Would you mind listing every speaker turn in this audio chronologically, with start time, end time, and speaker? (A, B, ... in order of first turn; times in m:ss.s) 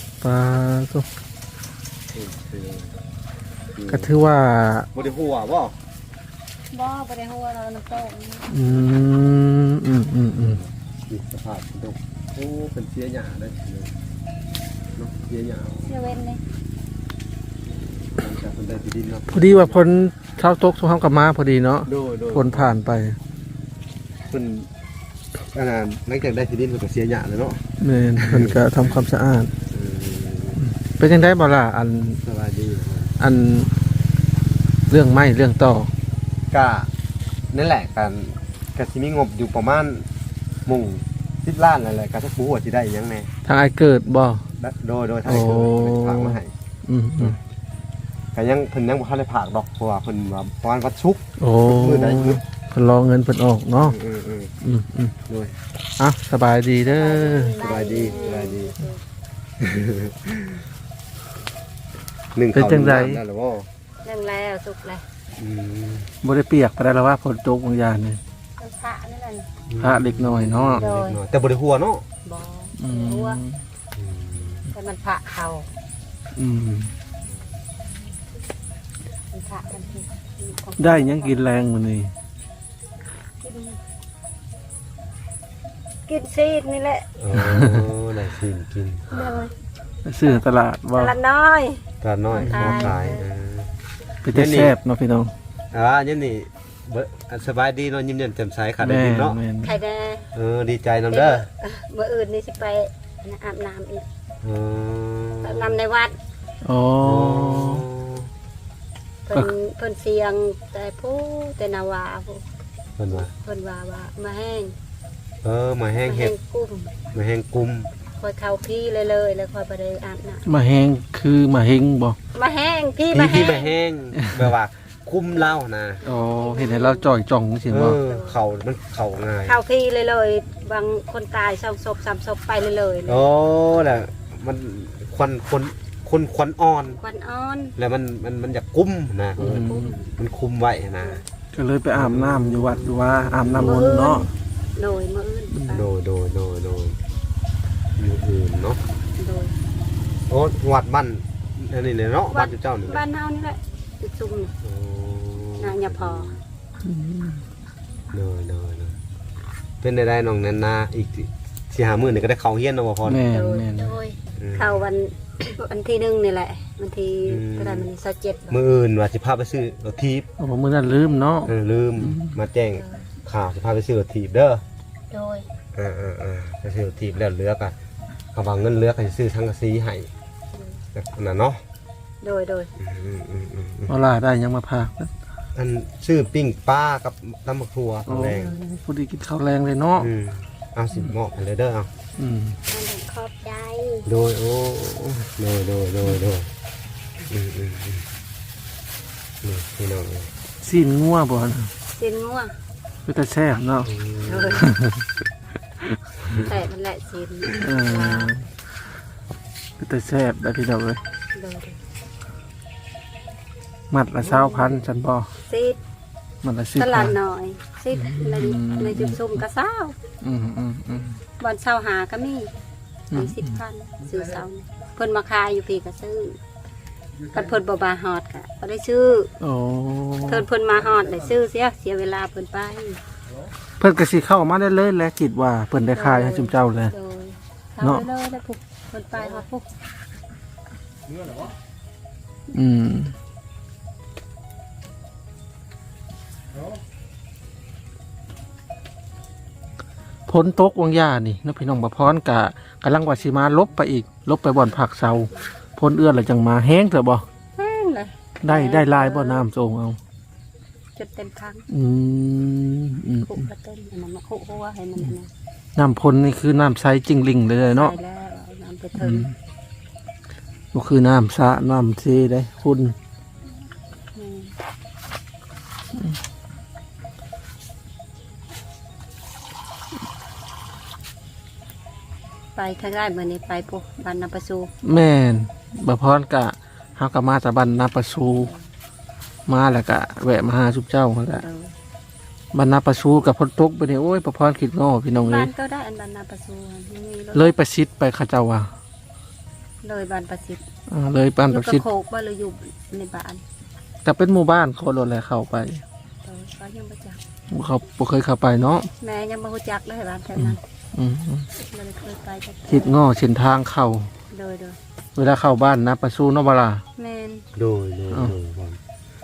0:00.2-0:01.1 A
0:02.1-0:02.9 B
0:03.8-0:04.1 B
0:03.9-0:04.9 A
0:04.9-0:05.8 B
0:06.7-0:08.5 C
0:08.5-0:10.6 A
0:10.5-0:13.9 B
0:15.0-0:15.9 B
0:15.9-0:16.4 C
0:18.2-0:20.0 B
0:19.3-0:23.2 A
0:21.8-0:22.8 B
0:24.3-0:24.7 B
0:25.5-0:27.6 B
0:27.8-0:29.5 A
0:28.2-0:29.0 B
0:29.7-0:30.6 B
0:30.6-0:32.2 A
0:32.2-0:33.2 B
0:33.2-0:33.7 A
0:34.9-0:35.9 A
0:36.5-0:36.9 B
0:37.5-0:40.1 B
0:40.6-0:43.3 B
0:43.4-0:44.4 A
0:44.6-0:46.5 B
0:45.2-0:47.4 A
0:48.3-0:52.4 B
0:51.4-0:54.0 A
0:53.8-0:54.5 B
0:54.6-0:55.1 A
0:55.3-0:55.6 B
0:56.0-0:57.6 A
0:56.9-0:59.0 C
0:57.5-0:58.8 B
0:59.6-1:00.6 B
1:02.3-1:03.7 B
1:02.5-1:03.2 A
1:04.0-1:05.0 C
1:05.4-1:06.1 B
1:06.2-1:08.2 A
1:08.6-1:09.5 C
1:09.7-1:12.0 B
1:09.8-1:10.8 A
1:10.8-1:11.2 C
1:12.2-1:13.4 C
1:12.8-1:13.6 A
1:14.0-1:14.7 B
1:14.7-1:15.7 C
1:16.4-1:16.9 A
1:19.3-1:21.4 C
1:20.8-1:22.1 A
1:23.4-1:23.8 C
1:26.1-1:27.1 C
1:27.2-1:29.4 B
1:27.3-1:27.9 A
1:29.1-1:29.5 C
1:30.0-1:31.2 A
1:30.2-1:33.2 C
1:32.0-1:33.7 B
1:32.4-1:33.0 A
1:34.2-1:35.3 A
1:34.3-1:34.8 B
1:35.7-1:39.4 B
1:38.8-1:39.8 A
1:39.6-1:40.3 C
1:40.3-1:41.5 B
1:41.1-1:44.0 C
1:44.4-1:45.8 B
1:45.4-1:46.2 C
1:46.6-1:47.8 A
1:47.0-1:48.3 B
1:49.2-1:52.4 C
1:53.0-1:53.3 B
1:53.1-1:54.8 C
1:55.4-1:56.3 B
1:56.0-1:56.9 C
1:57.1-1:57.9 B
1:58.2-2:00.4 C
2:00.4-2:02.2 A
2:02.3-2:03.7 C
2:03.1-2:06.0 B
2:04.2-2:04.5 A
2:06.0-2:08.0 A
2:06.1-2:07.1 C
2:07.7-2:09.6 B
2:07.9-2:08.4 C
2:09.4-2:13.3 C
2:13.0-2:17.0 B
2:17.0-2:17.7 C
2:17.8-2:21.2 B
2:19.4-2:20.1 C
2:19.4-2:20.0 A
2:21.5-2:24.3 A
2:21.9-2:23.9 B
2:23.6-2:25.9 C
2:25.5-2:25.8 A
2:25.7-2:27.0 B
2:28.0-2:28.8 B
2:29.2-2:29.6 C
2:30.3-2:33.0 B
2:32.3-2:34.5 C
2:34.6-2:36.4 B
2:35.6-2:36.3 C
2:36.8-2:37.4 A
2:38.1-2:39.0 B
2:39.8-2:43.3 B
2:43.0-2:44.0 A
2:43.3-2:48.6 C
2:44.4-2:44.8 B
2:47.2-2:47.9 B
2:48.5-2:50.3 B
2:50.4-2:52.4 A
2:51.5-2:54.6 B
2:52.8-2:53.0 C
2:55.1-2:55.5 C
2:55.7-2:57.7 B
2:58.3-3:00.1 B
3:00.5-3:00.8 C
3:00.9-3:01.6 B
3:02.2-3:02.7 C
3:02.8-3:04.0 B
3:03.9-3:05.1 A
3:05.5-3:08.5 B
3:08.1-3:10.1 A
3:10.0-3:11.9 B
3:12.2-3:12.6 A
3:12.7-3:14.1 C
3:14.0-3:16.5 B
3:17.3-3:18.0 B
3:19.4-3:20.3 B
3:20.6-3:21.7 A
3:21.9-3:22.5 C
3:23.0-3:23.9 A
3:23.8-3:24.7 B
3:24.3-3:24.7 C
3:24.6-3:25.0 A
3:26.2-3:26.5 B
3:26.4-3:28.3 C
3:27.6-3:28.5 A
3:29.8-3:31.0 A
3:31.3-3:31.8 C
3:33.9-3:35.3 A
3:34.2-3:34.8 C
3:35.4-3:35.8 C
3:36.4-3:37.2 A
3:36.8-3:40.0 C
3:37.9-3:39.4 A
3:40.2-3:41.2 A
3:41.4-3:42.5 C
3:43.1-3:43.6 A
3:43.1-3:46.4 C
3:47.3-3:49.3 C
3:49.4-3:50.5 A
3:50.2-3:53.0 C
3:53.8-3:56.9 A
3:55.9-3:59.7 C
4:02.5-4:03.2 A
4:10.3-4:17.2 A
4:17.6-4:19.4 C
4:18.4-4:20.0 A
4:21.0-4:21.6 C
4:21.7-4:23.5 A
4:23.3-4:25.3 C
4:25.8-4:27.9 A
4:27.7-4:29.3 C
4:28.9-4:29.3 A
4:30.7-4:33.0 A
4:34.1-4:34.5 C
4:42.6-4:44.7 C
4:44.8-4:48.5 A
4:48.4-4:48.6 C
4:49.5-4:51.4 A
4:51.4-4:51.7 C
4:52.5-4:55.5 A
4:55.2-4:57.5 C
4:57.3-4:58.7 A
4:59.8-5:00.6 C
5:00.9-5:01.8 A
5:01.5-5:03.4 C
5:04.0-5:05.8 A
5:06.2-5:07.2 C
5:07.5-5:08.9 A
5:09.0-5:10.6 C
5:10.3-5:11.5 A
5:11.7-5:13.0 C
5:12.7-5:14.1 A
5:14.3-5:14.8 C
5:15.2-5:16.8 A
5:17.0-5:17.4 C
5:17.5-5:18.8 B